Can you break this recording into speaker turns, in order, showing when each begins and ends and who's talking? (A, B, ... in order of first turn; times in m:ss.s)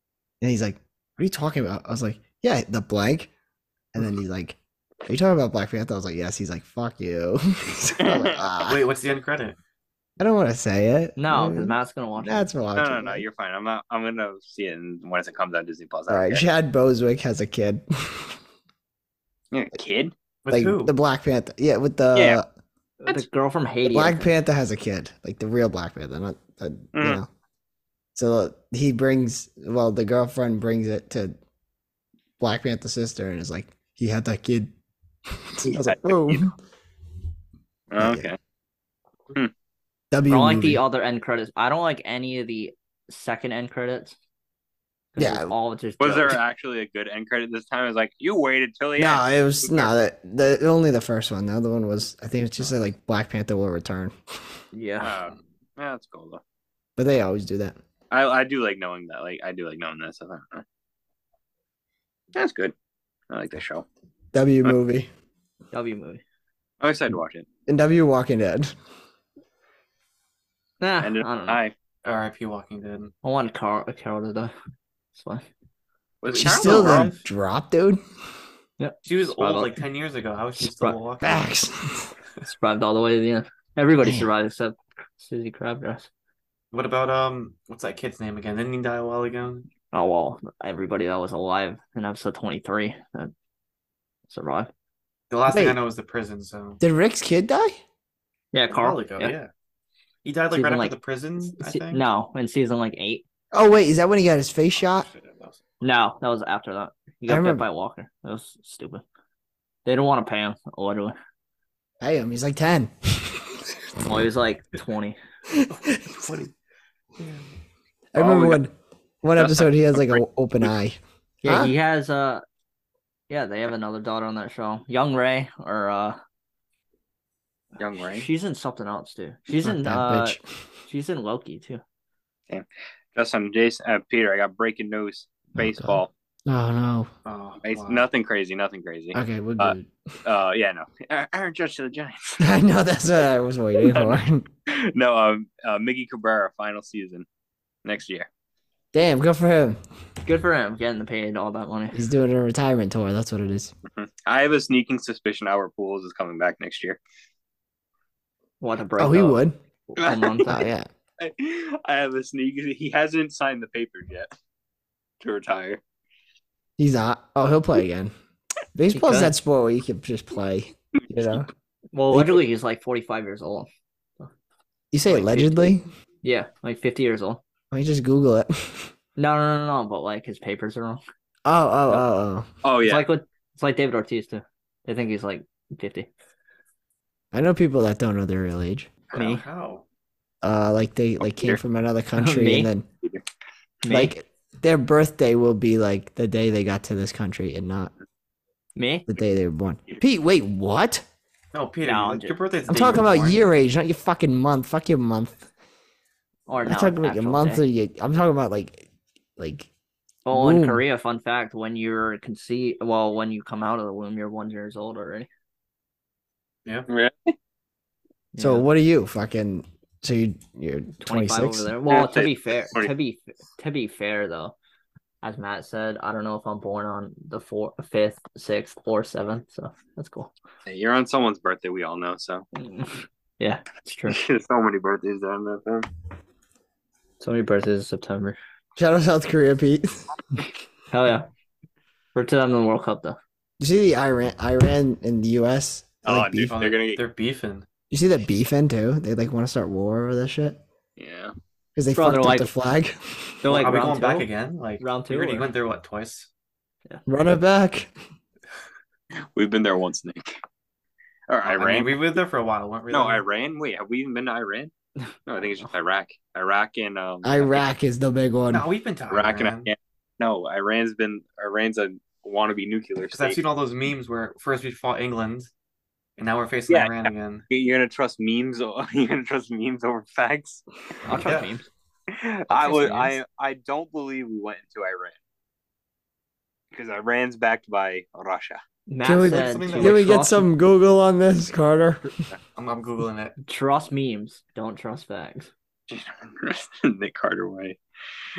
0:00.4-0:03.3 A
0:03.9-0:08.8 A
0:08.0-0:08.4 B
0:08.7-0:09.6 C
0:10.2-0:13.2 A
0:11.2-0:12.5 D
0:12.8-0:16.5 B
0:16.1-0:18.4 A
0:19.5-0:20.1 B
0:20.4-0:20.9 C
0:20.5-0:22.5 A
0:22.1-0:22.4 B
0:23.0-0:24.3 D
0:23.8-0:27.3 A
0:26.9-0:27.2 B
0:28.2-0:31.4 A
0:32.4-0:34.7 A
0:35.3-0:36.5 A
0:35.6-0:36.4 B
0:37.9-0:38.4 B
0:38.0-0:38.3 A
0:40.1-0:40.8 A
0:40.3-0:44.2 D
0:45.2-0:46.4 D
0:45.2-0:45.5 A
0:46.0-0:49.9 B
0:49.0-0:54.2 A
0:54.7-0:55.1 D
0:55.0-0:56.4 B
0:57.0-0:57.8 A
0:58.1-1:00.6 B
1:02.3-1:02.7 B
1:03.3-1:03.8 B
1:04.3-1:05.1 A
1:05.7-1:06.2 D
1:06.8-1:07.5 B
1:07.7-1:08.7 A
1:10.8-1:11.6 D
1:11.0-1:11.7 B
1:12.0-1:13.1 C
1:13.2-1:14.5 D
1:15.2-1:15.4 D
1:16.2-1:17.1 B
1:16.3-1:17.2 C
1:16.4-1:18.0 A
1:18.8-1:19.8 D
1:19.0-1:21.5 C
1:20.6-1:21.0 D
1:21.2-1:22.1 A
1:22.4-1:26.1 D
1:24.0-1:24.3 A
1:26.7-1:29.7 C
1:29.9-1:33.3 D
1:34.3-1:34.7 D
1:35.3-1:36.8 C
1:35.5-1:35.8 A
1:36.8-1:37.8 A
1:38.5-1:39.4 D
1:38.7-1:39.5 C
1:40.2-1:42.0 C
1:40.5-1:41.0 D
1:41.6-1:43.2 D
1:43.5-1:45.1 A
1:44.8-1:45.6 C
1:45.8-1:49.0 D
1:47.3-1:47.6 A
1:49.9-1:51.2 D
1:52.0-1:53.5 A
1:54.0-1:55.2 D
1:55.5-1:56.3 A
1:56.2-1:56.5 C
1:57.2-1:57.5 C
1:58.1-2:01.7 A
1:58.2-1:58.6 B
1:59.4-2:00.2 B
2:01.4-2:02.4 D
2:03.3-2:06.2 D
2:07.8-2:08.3 B
2:08.1-2:11.8 D
2:09.6-2:10.4 A
2:12.5-2:16.1 B
2:15.6-2:17.1 A
2:17.2-2:18.1 C
2:17.6-2:22.4 B
2:19.1-2:19.9 A
2:22.4-2:24.5 A
2:23.8-2:27.3 B
2:27.8-2:28.3 B
2:28.9-2:29.8 A
2:30.2-2:32.0 D
2:31.9-2:33.7 A
2:33.9-2:37.0 B
2:38.6-2:40.7 D
2:39.0-2:39.6 A
2:40.1-2:40.9 A
2:41.2-2:44.3 B
2:45.2-2:45.8 B
2:46.8-2:48.1 A
2:48.8-2:51.5 A
2:48.9-2:49.3 D
2:51.9-2:53.7 D
2:52.1-2:52.4 A
2:54.9-2:55.8 A
2:56.2-2:57.4 D
2:57.7-2:58.9 A
2:59.2-3:01.0 D
3:01.5-3:02.5 A
3:02.6-3:03.1 B
3:02.8-3:06.1 D
3:07.3-3:08.9 A
3:09.1-3:09.4 D
3:09.1-3:09.8 C
3:10.4-3:12.9 A
3:12.2-3:12.7 D
3:13.8-3:14.1 D
3:13.9-3:17.9 A
3:18.8-3:19.0 D
3:19.1-3:21.0 A
3:21.5-3:23.5 C
3:21.8-3:22.4 D
3:22.7-3:25.5 A
3:26.5-3:27.6 D
3:26.6-3:29.7 A
3:30.3-3:35.3 D
3:30.3-3:30.8 A
3:36.9-3:37.4 B
3:38.3-3:38.7 D
3:38.4-3:41.7 A
3:41.0-3:44.6 D
3:41.9-3:42.9 B
3:45.2-3:50.3 D
3:50.7-3:52.4 B
3:52.6-3:54.2 D
3:54.1-3:55.9 B
3:57.2-3:58.4 D
3:58.8-4:00.1 A
4:00.9-4:01.3 D
4:02.2-4:03.2 D
4:03.6-4:06.6 A
4:06.0-4:07.0 B
4:06.5-4:07.7 C
4:07.9-4:10.6 A
4:11.0-4:11.3 B
4:11.8-4:13.8 A
4:12.0-4:12.5 D
4:13.4-4:15.5 D
4:13.5-4:16.3 C
4:17.1-4:17.9 A
4:19.3-4:20.4 B
4:21.3-4:22.0 B
4:21.4-4:23.2 C
4:22.9-4:24.7 B
4:25.3-4:27.6 B
4:27.2-4:28.7 A
4:28.5-4:29.7 C
4:29.1-4:33.4 B
4:33.0-4:35.5 C
4:36.2-4:37.5 C
4:36.7-4:40.6 B
4:41.1-4:41.7 D
4:41.2-4:41.5 C
4:42.1-4:45.2 B
4:42.5-4:43.1 D
4:46.7-4:48.6 B
4:48.9-4:50.5 D
4:49.0-4:52.2 A
4:49.1-4:50.1 C
4:52.6-4:53.4 C
4:53.4-4:55.5 D
4:55.9-4:57.8 B